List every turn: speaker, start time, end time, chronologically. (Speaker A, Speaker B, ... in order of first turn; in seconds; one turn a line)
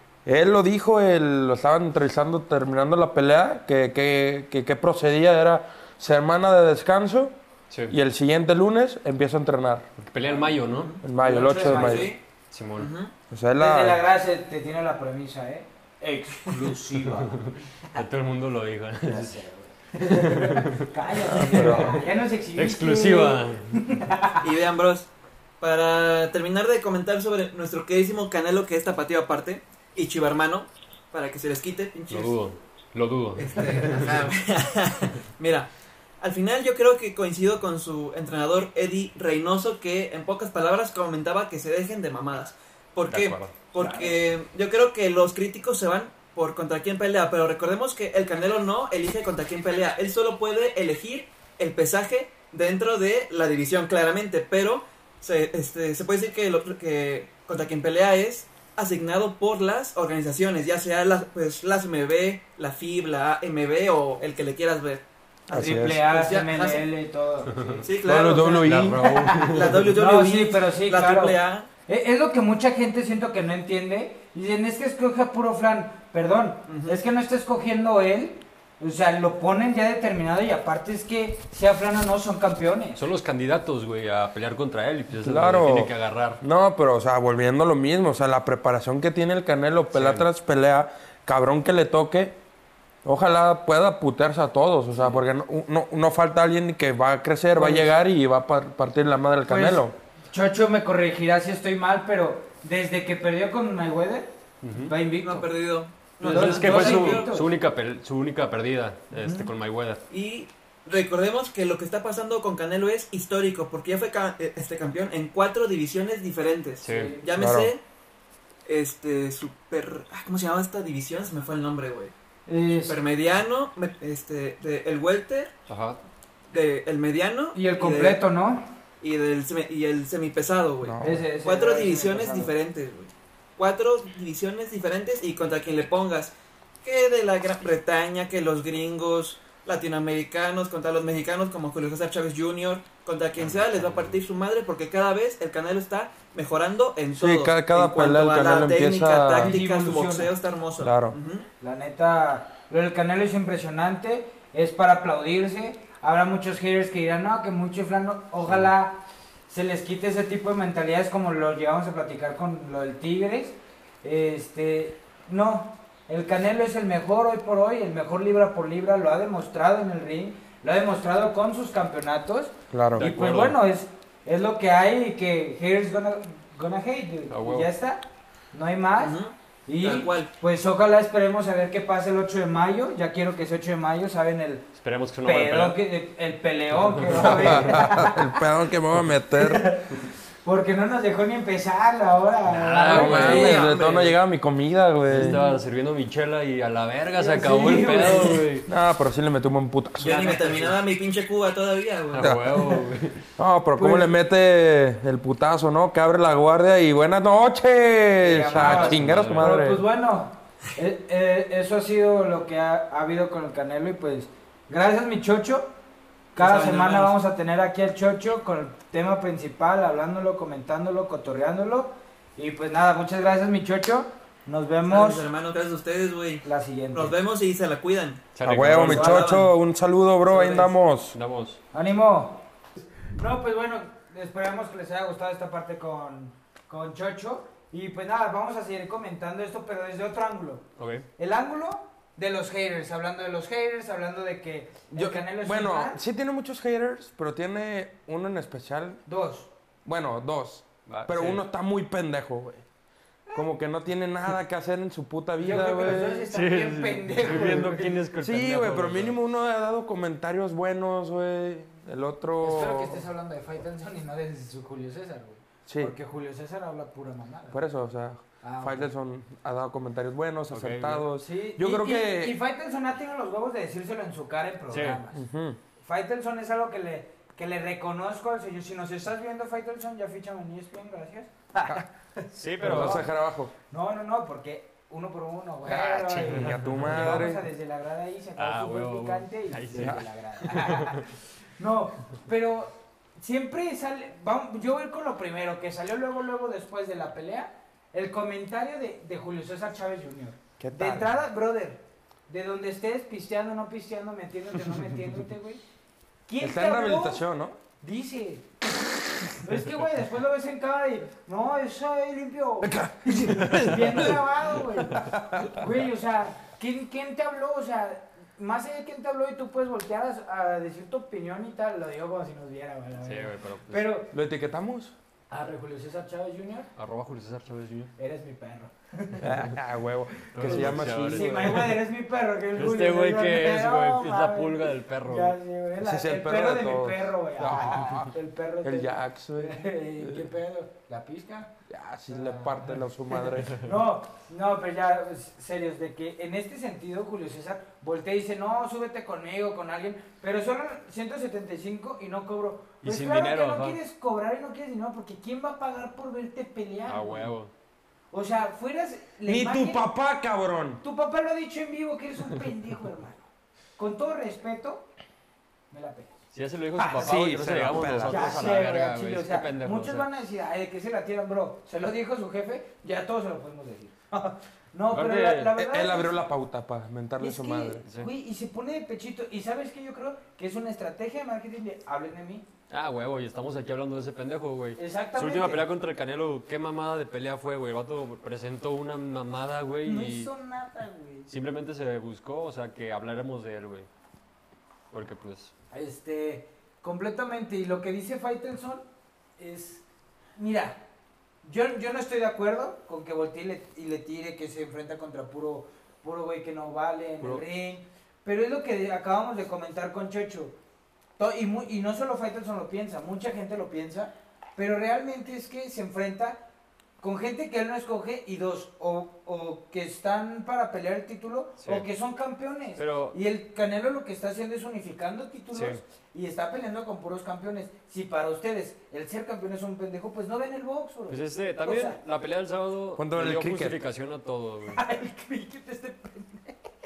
Speaker A: 0.3-7.4
Speaker B: 7.7-8.0
Speaker A: 7.9-9.9
Speaker B: 10.0-10.9
Speaker C: 10.2-11.0
Speaker A: 11.0-12.1
Speaker D: 11.2-12.2
Speaker C: 11.6-12.2
Speaker B: 12.5-12.9
Speaker C: 12.8-13.1
Speaker A: 13.3-14.0
Speaker D: 13.6-17.4
Speaker B: 17.1-19.4
Speaker D: 19.0-24.5
Speaker B: 20.0-23.8
Speaker A: 21.4-22.1
Speaker C: 24.4-25.1
Speaker C: 25.6-32.4
Speaker B: 32.1-34.3
Speaker C: 33.4-35.7
Speaker C: 36.2-65.0
Speaker B: 43.1-43.5
Speaker D: 43.8-44.2
Speaker A: 65.5-66.1
Speaker D: 65.5-67.9
Speaker C: 66.0-66.9
Speaker C: 67.8-68.8
Speaker A: 68.0-69.1
Speaker B: 68.6-69.9
Speaker D: 69.0-83.0
Speaker C: 69.4-71.7
Speaker C: 76.7-77.0
Speaker B: 83.0-86.4
Speaker A: 85.2-92.4
Speaker B: 89.9-90.3
Speaker A: 93.0-100.0
Speaker D: 97.5-97.9
Speaker D: 99.5-105.5
Speaker B: 104.6-104.9
Speaker C: 105.2-107.3
Speaker D: 106.2-107.5
Speaker B: 106.2-110.0
Speaker D: 109.1-109.5
Speaker C: 110.1-117.8
Speaker B: 116.8-117.2
Speaker D: 116.8-117.3
Speaker A: 117.3-117.7
Speaker C: 118.7-122.1
Speaker D: 122.5-123.0
Speaker C: 122.8-125.5
Speaker B: 125.7-126.0
Speaker C: 126.5-128.2
Speaker D: 127.5-128.7
Speaker C: 129.0-136.3
Speaker A: 130.8-131.2
Speaker D: 131.0-132.5
Speaker C: 136.8-151.5
Speaker B: 143.4-144.2
Speaker A: 147.2-149.6
Speaker D: 149.3-150.3
Speaker A: 150.8-151.2
Speaker D: 151.6-184.7
Speaker A: 172.7-173.1
Speaker B: 173.0-173.6
Speaker B: 177.3-177.7
Speaker C: 179.0-180.3
Speaker B: 184.8-185.8
Speaker D: 185.2-188.4
Speaker B: 186.7-187.8
Speaker A: 187.2-189.7
Speaker D: 189.3-193.7
Speaker B: 192.5-193.6
Speaker C: 192.9-194.2
Speaker A: 192.9-195.4
Speaker B: 195.1-198.7
Speaker D: 195.2-195.6
Speaker D: 197.2-198.5
Speaker A: 198.7-200.7
Speaker C: 200.0-202.4
Speaker D: 200.1-200.7
Speaker B: 200.3-200.7
Speaker B: 202.1-203.2
Speaker A: 202.2-202.6
Speaker A: 203.4-209.8
Speaker D: 203.8-204.1
Speaker D: 208.2-215.7
Speaker B: 208.4-209.5
Speaker D: 216.3-225.3
Speaker C: 216.4-217.2
Speaker C: 224.9-229.5
Speaker D: 226.4-227.2
Speaker B: 228.3-229.2
Speaker A: 228.4-231.2
Speaker D: 228.9-229.3
Speaker B: 230.3-231.6
Speaker D: 231.7-232.4
Speaker D: 233.1-240.6
Speaker B: 240.8-241.1
Speaker D: 241.2-246.0
Speaker A: 244.9-249.0
Speaker D: 249.1-249.5
Speaker A: 249.8-252.7
Speaker B: 250.9-251.4
Speaker A: 253.3-256.3
Speaker D: 255.4-257.9
Speaker B: 255.5-259.2
Speaker A: 257.3-257.6
Speaker A: 258.2-263.0
Speaker D: 262.4-267.6
Speaker A: 265.7-265.9
Speaker A: 267.5-272.4
Speaker D: 268.4-268.9
Speaker B: 270.5-271.1
Speaker D: 271.2-275.2
Speaker B: 274.7-275.0
Speaker A: 275.1-275.6
Speaker D: 275.8-283.1
Speaker B: 282.3-283.0
Speaker A: 282.6-283.5
Speaker D: 283.7-305.6
Speaker B: 285.7-287.3
Speaker A: 286.2-287.4
Speaker B: 288.4-291.0
Speaker A: 300.6-301.1
Speaker D: 306.3-307.2
Speaker A: 306.4-307.6
Speaker D: 307.8-308.5
Speaker D: 309.4-324.1
Speaker A: 312.6-315.6
Speaker B: 323.0-323.9
Speaker A: 324.1-324.9
Speaker D: 325.3-326.7
Speaker B: 326.8-327.9
Speaker D: 328.0-329.4
Speaker A: 329.2-331.6
Speaker B: 330.3-331.8
Speaker D: 330.4-341.5
Speaker B: 332.6-335.4
Speaker A: 335.8-340.3
Speaker A: 341.7-343.7
Speaker D: 342.1-357.3
Speaker B: 352.8-353.8
Speaker B: 356.9-357.5
Speaker D: 358.1-359.9
Speaker A: 359.2-360.8
Speaker D: 360.8-364.9
Speaker D: 365.7-366.2
Speaker B: 366.3-370.1
Speaker D: 366.8-367.2
Speaker A: 367.0-368.5
Speaker D: 368.1-376.2
Speaker B: 374.9-375.5
Speaker A: 375.6-377.8
Speaker D: 377.2-382.4
Speaker B: 382.7-390.3
Speaker D: 384.8-385.7
Speaker D: 389.9-391.3
Speaker B: 391.3-393.9
Speaker B: 394.9-395.5
Speaker D: 395.7-398.9
Speaker D: 399.4-399.8
Speaker D: 400.4-400.8
Speaker D: 401.4-410.6
Speaker D: 411.2-416.4
Speaker D: 417.0-432.0
Speaker B: 422.8-423.2
Speaker B: 425.5-425.8
Speaker B: 431.1-434.8
Speaker A: 433.0-433.8
Speaker D: 434.7-436.7